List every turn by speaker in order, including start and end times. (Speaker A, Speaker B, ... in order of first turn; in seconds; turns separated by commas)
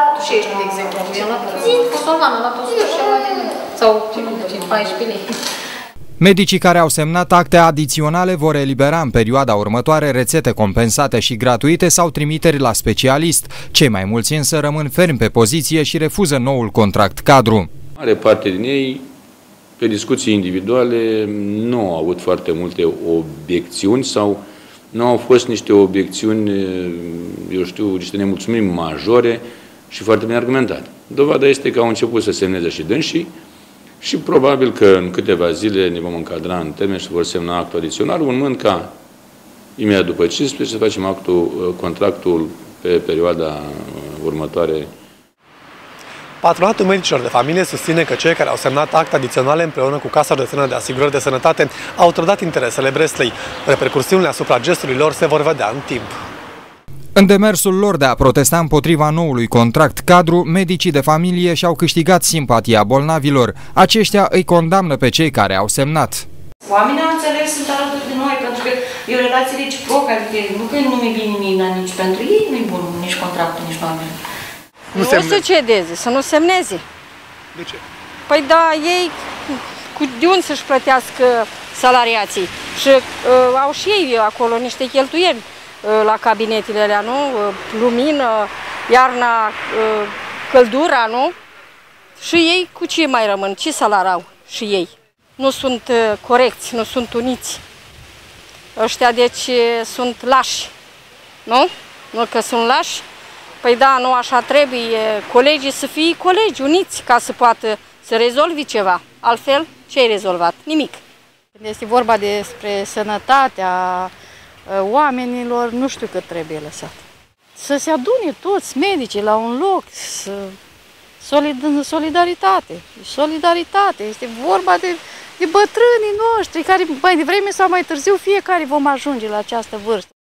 Speaker A: 4.4-4.8, Speaker B: 6.2-17.7, Speaker C: 18.0-19.1, Speaker C: 19.8-33.3, Speaker C: 34.0-38.9, Speaker C: 39.8-44.9, Speaker D: 46.4-56.1, Speaker B: 57.2-66.2, Speaker A: 66.6-74.1, Speaker E: 74.9-76.8, Speaker E: 78.3-91.3, Speaker E: 92.2-97.6, Speaker E: 98.8-100.7, Speaker E: 101.5-103.0, Speaker E: 103.6-111.0, Speaker F: 111.5-114.1, Speaker F: 114.7-117.0, Speaker F: 117.5-120.5, Speaker F: 121.2-130.1